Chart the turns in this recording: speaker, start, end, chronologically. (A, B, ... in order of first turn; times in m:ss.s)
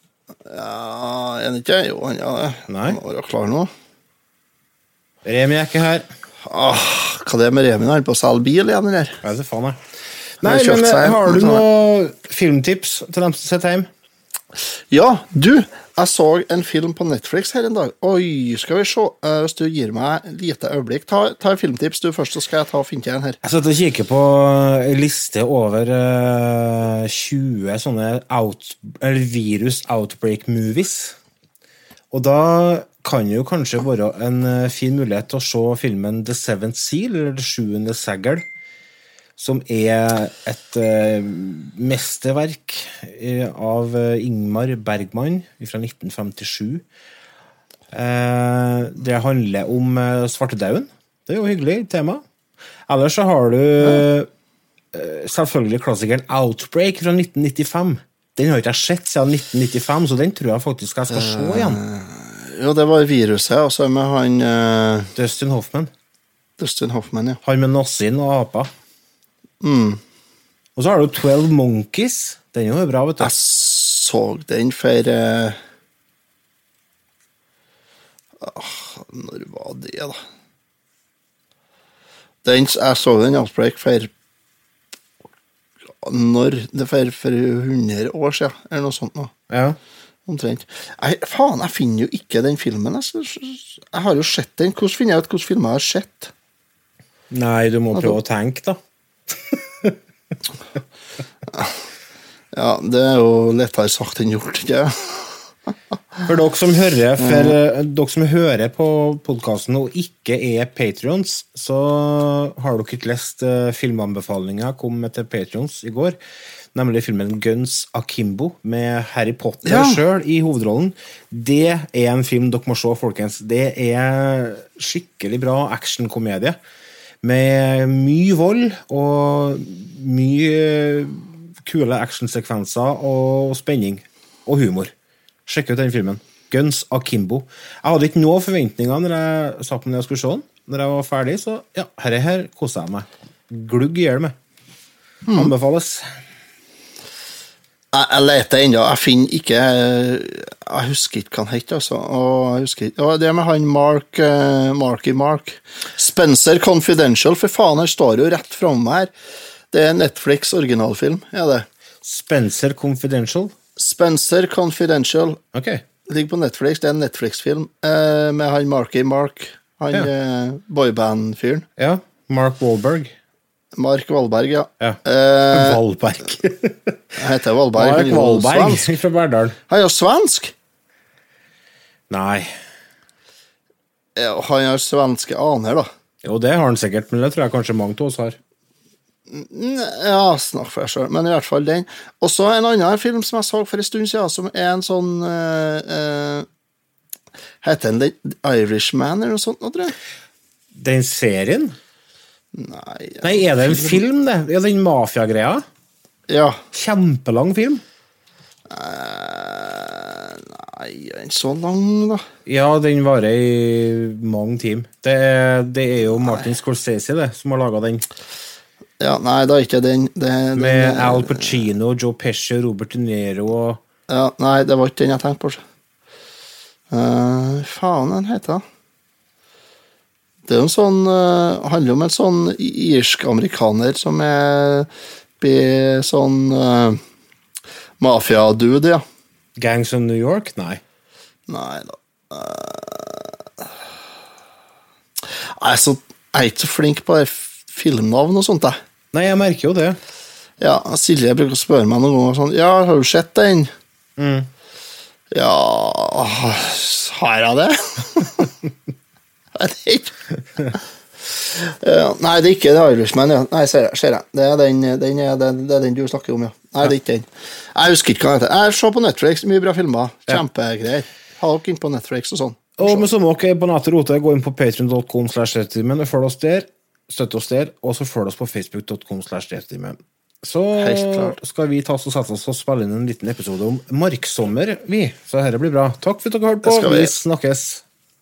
0:00.4-0:03.7 A
0:02.7-0:03.0 B
0:05.2-0:06.1 B
0:06.4-0:09.2 A
0:09.2-0:09.8 B
0:10.4-0:11.6 A
0:10.4-0:13.9 B
0:14.9-0:23.4 A
0:23.4-0:31.2 B
0:32.1-0:38.4 B
0:39.4-0:46.8 B
0:47.9-0:52.2 B
0:52.9-0:54.3 B
0:54.9-1:01.8 B
1:01.1-1:05.1 A
1:05.2-1:05.9 B
1:06.6-1:07.4 A
1:07.4-1:08.7 B
1:09.6-1:10.0 A
1:10.8-1:13.3 B
1:13.2-1:15.6 A
1:18.4-1:20.2 A
1:22.4-1:24.1 A
1:26.0-1:29.3 A
1:29.5-1:29.8 B
1:30.3-1:36.3 A
1:37.3-1:38.8 B
1:39.5-1:40.0 B
1:42.5-1:45.4 A
1:46.2-1:56.2 B
1:47.2-1:47.5 A
1:56.7-2:06.6 B
1:59.6-2:00.0 A
2:07.2-2:14.9 B
2:15.5-2:24.3 B
2:25.2-2:25.5 A
2:25.3-2:26.0 B
2:27.9-2:39.1 A
2:39.7-2:41.6 A
2:42.0-2:43.5 B
2:43.8-2:45.4 A
2:45.5-2:45.8 B
2:46.0-2:51.6 A
2:51.8-2:53.1 B
2:53.7-2:55.8 A
2:55.5-2:57.0 B
2:57.2-2:58.9 A
2:57.8-2:59.6 B
2:59.7-3:00.5 A
3:02.1-3:02.5 B
3:04.2-3:05.9 A
3:06.2-3:08.4 B
3:09.3-3:16.4 A
3:17.6-3:20.0 A
3:20.7-3:21.8 B
3:22.5-3:24.0 A
3:23.2-3:25.6 B
3:26.3-3:26.6 A
3:26.7-3:27.8 B
3:28.7-3:32.2 A
3:32.4-3:38.0 B
3:39.0-3:41.6 A
3:40.5-3:43.8 B
3:44.1-3:45.6 A
3:46.9-3:48.6 A
3:50.5-3:54.9 A
3:55.4-3:57.0 A
3:58.0-3:59.0 A
3:59.6-4:00.8 B
4:01.5-4:03.4 A
4:05.4-4:08.8 A
4:09.1-4:10.0 B
4:10.6-4:13.7 A
4:14.2-4:14.5 B
4:15.3-4:18.5 A
4:19.6-4:20.1 A
4:21.3-4:33.1 A
4:32.8-4:47.8 B
4:40.8-4:41.4 A
4:46.6-4:47.1 A